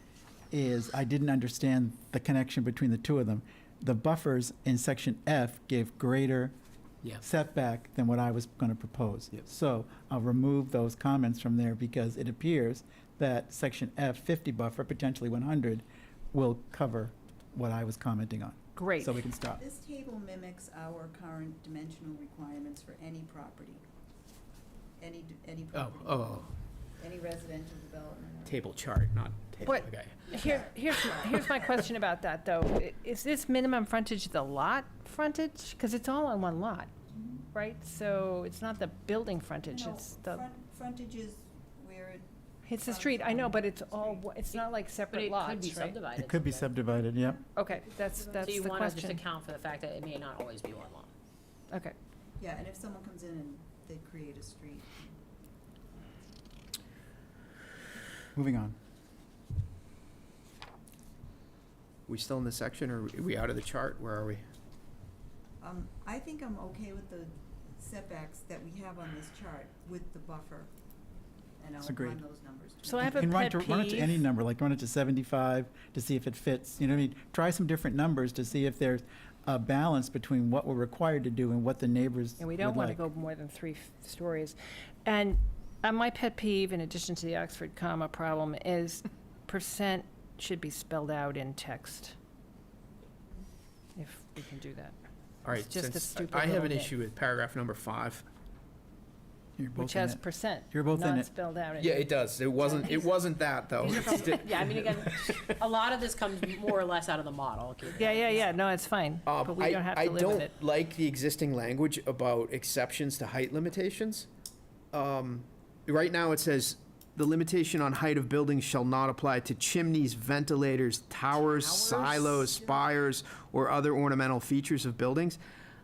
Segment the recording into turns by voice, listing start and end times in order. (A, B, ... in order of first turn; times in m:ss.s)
0:00.5-0:06.5 A
0:07.2-0:19.6 A
0:18.8-0:19.1 B
0:19.6-0:23.8 C
0:25.0-0:28.6 C
0:25.7-0:26.5 D
0:28.4-0:30.2 D
0:29.6-0:36.9 B
0:29.7-0:31.9 C
0:37.5-0:40.5 B
0:39.6-0:44.3 C
0:42.6-0:46.0 B
0:44.5-0:46.7 E
0:46.2-0:47.4 A
0:47.0-0:48.7 C
0:47.5-0:49.2 B
0:48.4-0:51.1 E
0:51.7-0:51.9 B
0:52.4-0:55.2 C
0:58.3-0:58.8 A
1:02.1-1:04.4 D
1:05.6-1:10.7 C
1:11.6-1:13.3 C
1:11.8-1:12.2 A
1:12.8-1:14.2 B
1:13.1-1:23.0 A
1:22.4-1:32.1 B
1:34.0-1:34.9 B
1:35.4-1:38.2 D
1:35.4-1:36.9 B
1:39.6-1:41.3 A
1:39.7-1:43.2 B
1:41.8-1:45.6 D
1:43.8-1:48.5 E
1:43.8-1:44.3 B
1:48.0-1:50.5 B
1:49.2-1:54.3 D
1:54.9-2:05.4 D
2:01.6-2:03.0 C
2:02.1-2:02.4 E